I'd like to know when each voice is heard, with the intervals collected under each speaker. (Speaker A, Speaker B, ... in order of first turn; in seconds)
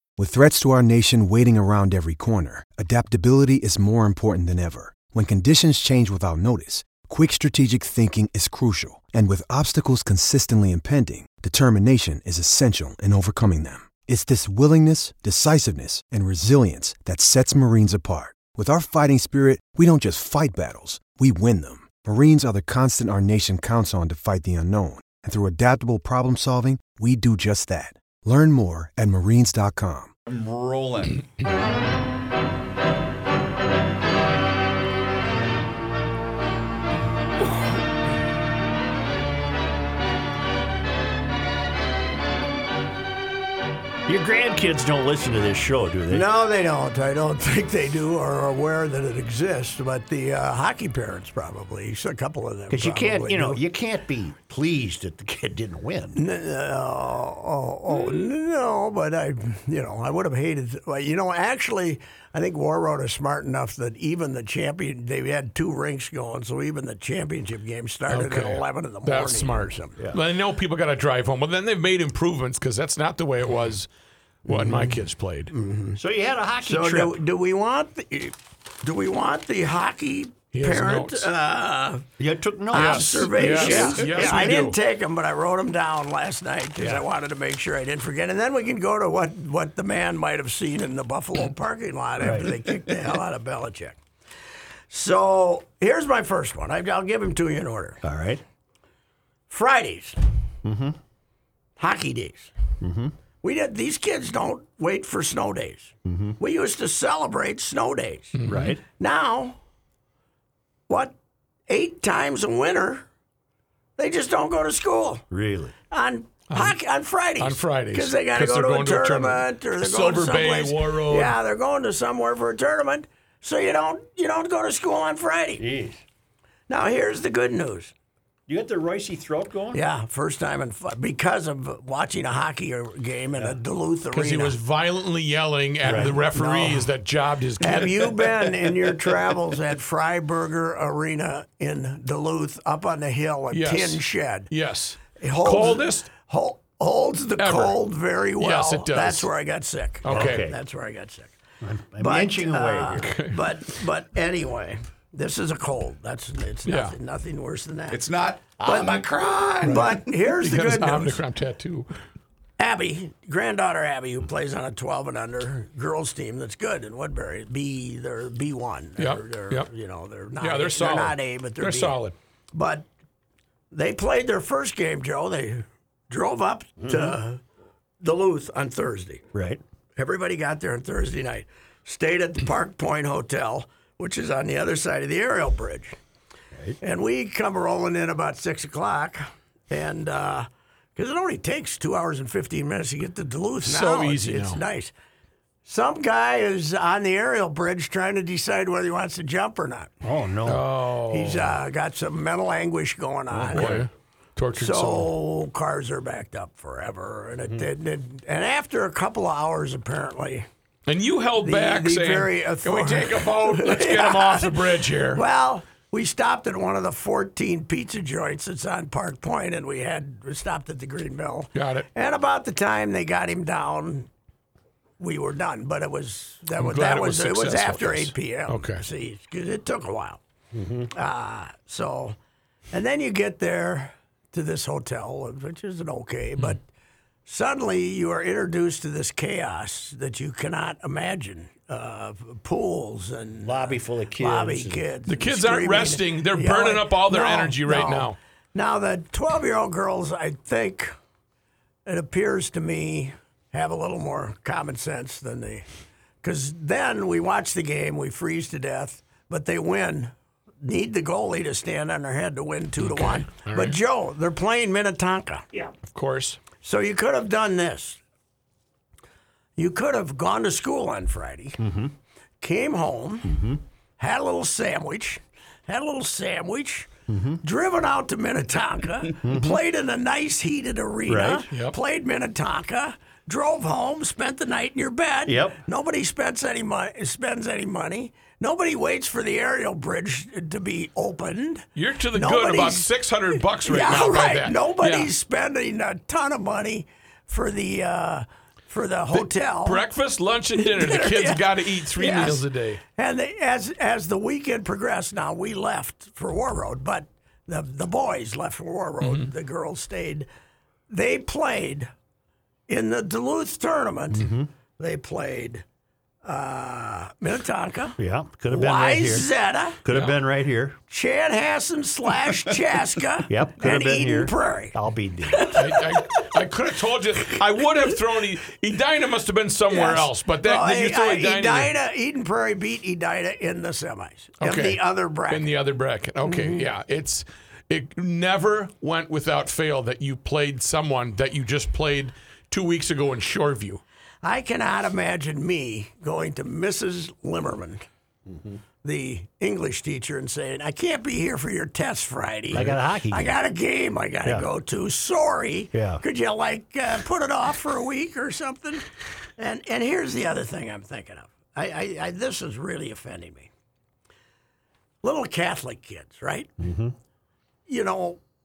Speaker A: 0.2-30.1
Speaker B: 30.3-31.2, 157.9-159.9, 203.4-203.8
Speaker C: 44.0-46.3, 52.7-56.2, 76.0-77.2, 82.2-84.7, 86.8-87.0, 92.2-92.5, 98.0-98.4, 100.6-101.0, 102.8-103.1, 106.0-106.3, 108.5-108.8, 115.3-115.7, 125.6-126.0, 128.5-129.8, 135.8-136.1, 150.1-150.6, 151.6-153.1, 176.8-177.2, 179.3-179.6, 200.0-200.6, 230.5-230.9, 243.4-244.8, 271.6-271.9, 273.3-273.6, 277.1-277.4, 279.2-279.6, 281.1-281.4, 285.3-285.6, 314.1-314.5, 318.0-319.3, 319.8-320.8, 323.3-325.6, 348.3-348.6, 352.5-353.3, 355.7-356.0, 366.6-366.9
Speaker D: 46.1-53.6, 56.1-70.0, 74.5-74.9, 75.5-76.0, 76.6-82.0, 82.7-94.0, 94.9-98.0, 99.5-100.2, 101.8-102.5, 103.4-108.3, 109.0-109.6, 110.9-111.2, 111.7-113.0, 114.0-115.2, 115.9-125.6, 126.7-127.9, 129.7-134.6, 135.9-136.9, 137.6-144.5, 145.2-151.3, 152.0-158.0, 158.6-161.2, 162.6-172.0, 172.5-172.9, 173.7-177.4, 178.0-179.2, 179.9-185.9, 186.8-194.9, 195.6-199.9, 201.1-203.8, 204.5-210.4, 211.4-224.1, 225.0-230.2, 230.9-232.2, 232.7-236.6, 237.2-250.9, 251.8-255.6, 256.2-265.4, 266.6-268.0, 269.6-271.6, 272.4-273.4, 274.0-299.9, 300.6-310.3, 310.9-311.9, 312.7-315.6, 316.2-319.8, 320.9-326.3, 329.7-335.6, 336.2-336.6, 344.2-347.8, 348.8-358.9, 359.4-363.5, 365.0-366.5, 367.7-368.2
Speaker E: 68.1-73.9, 74.5-75.5, 80.5-81.3, 82.7-84.8, 108.3-108.8, 116.5-116.8, 117.4-121.3, 134.1-138.3, 143.5-146.1, 147.4-147.8, 148.4-149.3, 150.0-150.4, 153.0-153.5, 156.7-156.9, 159.6-161.9, 169.0-169.7, 170.4-172.1, 193.6-194.6, 200.4-201.6, 203.5-205.1, 210.8-215.2, 221.5-221.8, 226.6-228.8, 245.1-248.2, 262.8-263.8, 265.9-266.4, 281.5-281.8, 291.7-295.1, 299.1-302.8, 309.0-309.3, 319.9-320.2, 325.5-331.7, 334.4-343.8